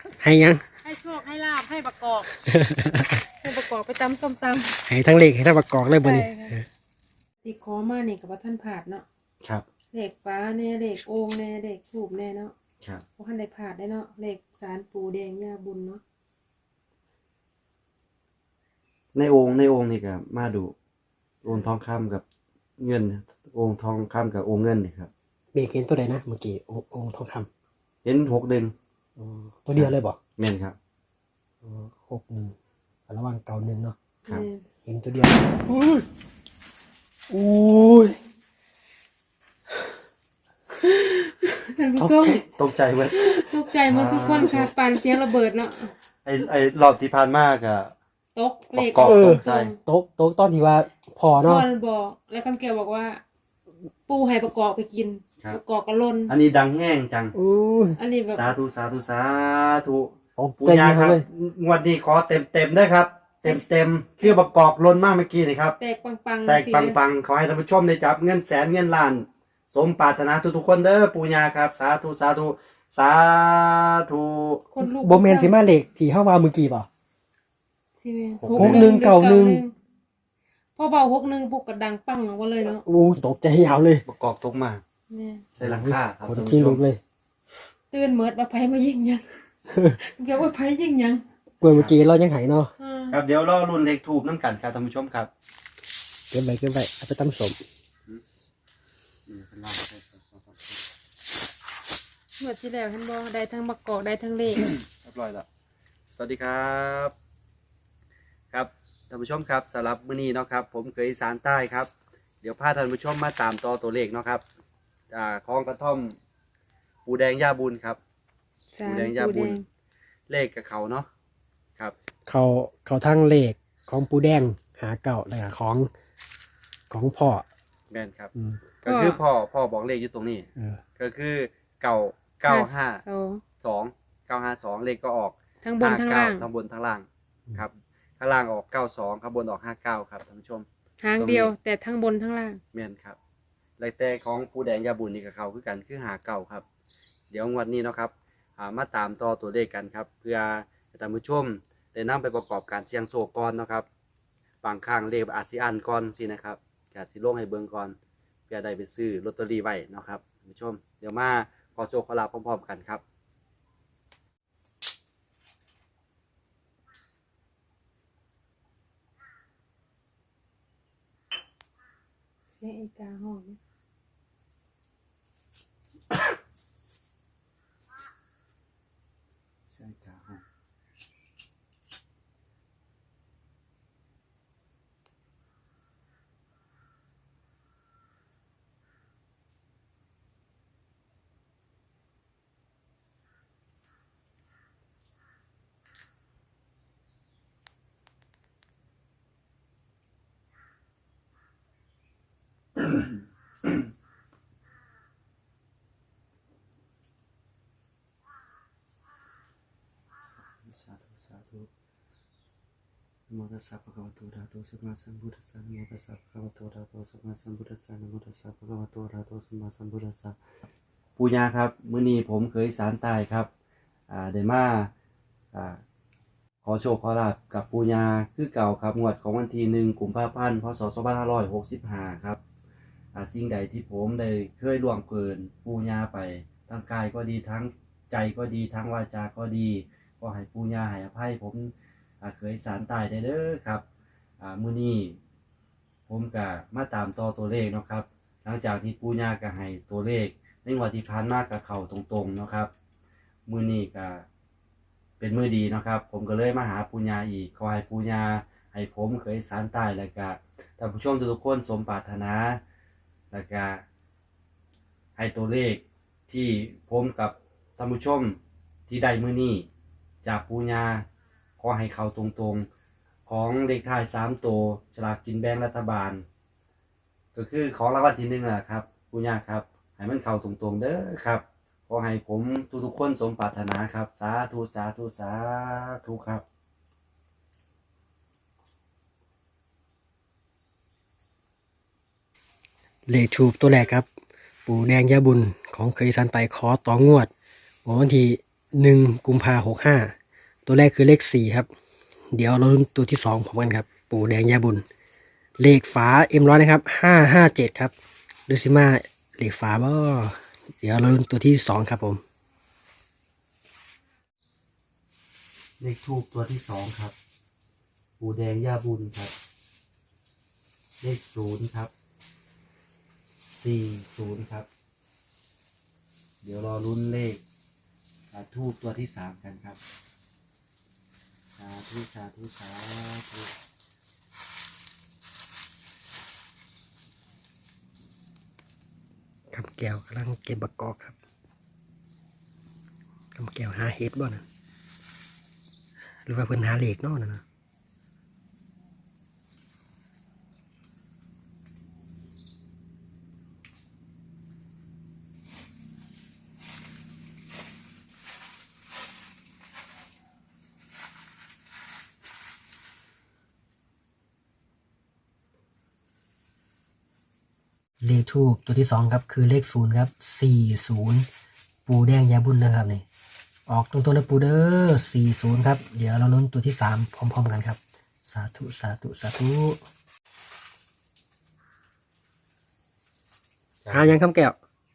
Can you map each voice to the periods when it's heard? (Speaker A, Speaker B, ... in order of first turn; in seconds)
Speaker A: 0.2-0.6, 2.5-3.2, 4.9-6.7, 25.5-27.5, 29.2-30.2, 31.6-32.5, 33.1-34.0, 34.8-36.0, 37.3-38.1, 42.0-42.3, 49.0-51.6, 57.3-58.0, 60.4-61.2, 74.8-76.9, 78.5-79.6, 82.8-84.0, 85.6-87.0, 91.6-92.7, 96.3-97.6, 122.3-125.9, 126.9-127.5, 128.3-128.6, 293.1-294.1, 294.6-297.3, 297.8-300.1, 300.6-301.7, 302.3-304.9, 305.6-307.9, 308.5-312.2, 339.5-341.2, 343.3-344.4, 346.3-347.4, 368.0-371.3, 371.9-373.0, 373.7-379.8, 383.9-384.6
Speaker B: 0.8-2.3, 3.4-4.8, 6.0-6.5, 7.4-9.0, 9.9-12.5, 13.2-16.0, 34.2-34.6, 40.8-42.4, 43.1-45.9, 48.3-49.8, 51.4-53.2, 54.0-56.3, 58.0-58.5, 65.8-67.0, 74.7-75.5, 78.0-79.7, 80.8-82.8, 85.1-85.5, 87.9-89.2, 89.9-91.2, 92.8-93.2, 102.4-104.7, 118.7-119.6, 128.8-129.2, 132.5-133.4, 135.6-136.5, 141.0-142.6, 172.5-173.6
Speaker C: 19.1-20.7, 21.4-22.2, 22.8-25.1, 28.0-28.7, 29.7-30.7, 42.2-43.2, 43.8-44.7, 46.2-47.9, 48.7-49.7, 56.3-57.3, 58.3-65.8, 66.5-74.6, 78.4-78.9, 84.0-84.8, 85.5-86.8, 91.7-92.0, 93.1-95.3, 99.3-100.8, 104.6-105.5, 106.1-107.1, 108.5-111.9, 112.4-114.4, 115.1-116.2, 117.0-118.0, 118.8-119.6, 120.3-121.1, 127.9-128.3, 128.8-133.0, 133.6-140.7, 141.2-141.5, 142.7-143.2, 143.8-146.6, 147.3-153.8, 154.6-157.9, 158.5-163.0, 179.7-180.4, 210.2-211.7, 213.3-220.4, 221.2-223.5, 224.1-224.9, 225.5-225.8, 226.6-232.4, 233.1-243.8, 244.4-245.2, 246.1-252.7, 253.5-254.2, 255.2-262.6, 263.3-263.8, 265.2-269.7, 270.2-271.1, 271.6-272.7, 273.3-276.2, 277.3-286.4, 315.8-317.1, 318.2-319.3, 321.0-321.9, 323.6-324.7, 326.4-327.4, 328.3-329.8, 331.6-333.5, 383.8-384.1